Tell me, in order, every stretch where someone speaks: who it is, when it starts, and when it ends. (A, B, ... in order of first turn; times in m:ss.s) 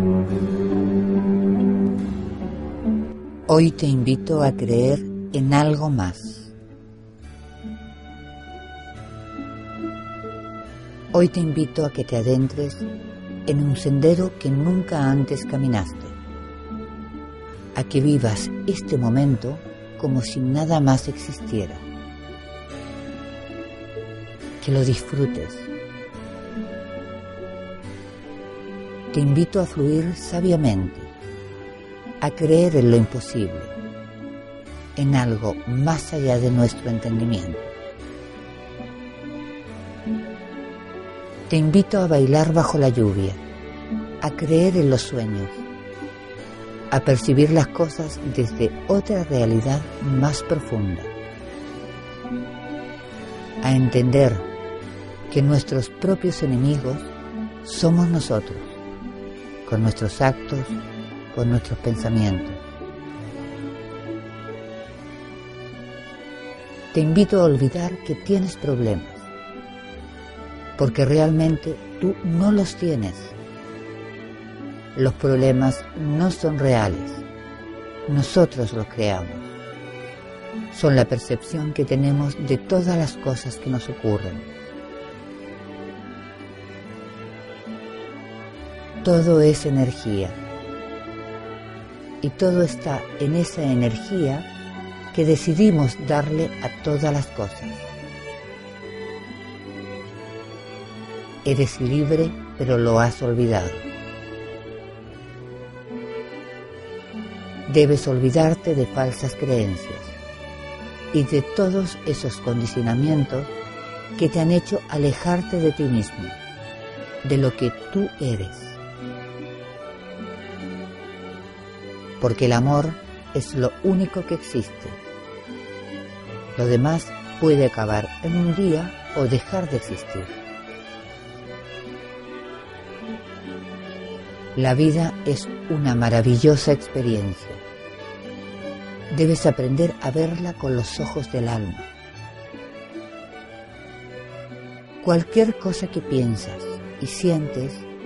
0:03.5-0:06.5 A
0:11.1-0:12.9 A
0:13.4-0:16.2 A
0:17.7-0:21.8 A
0:24.6-0:25.7 A
0:29.1-0:31.1 A
0:32.2-0:33.7 A
0:34.9-0:37.7 A
0:41.5-0:43.4 A
0:44.2-0:45.6 A
0:46.9-0:51.1 A
0:53.6-0:54.5 A
0:55.3-0:57.1 A
0:57.6-0:58.8 A
0:59.6-1:02.6 A
1:06.9-1:09.3 A
1:10.8-1:13.3 A
1:14.9-1:17.2 A
1:18.1-1:19.5 A
1:20.7-1:24.5 A
1:29.0-1:30.4 A
1:32.2-1:34.5 A
1:35.1-1:37.9 A
1:41.4-1:43.9 A
1:47.6-1:50.2 A
1:51.1-1:53.5 A
1:54.2-1:56.4 A
1:57.2-1:58.8 A
2:02.2-2:05.0 A
2:06.5-2:10.4 A
2:14.5-2:17.6 A
2:19.1-2:21.9 A
2:25.0-2:27.9 A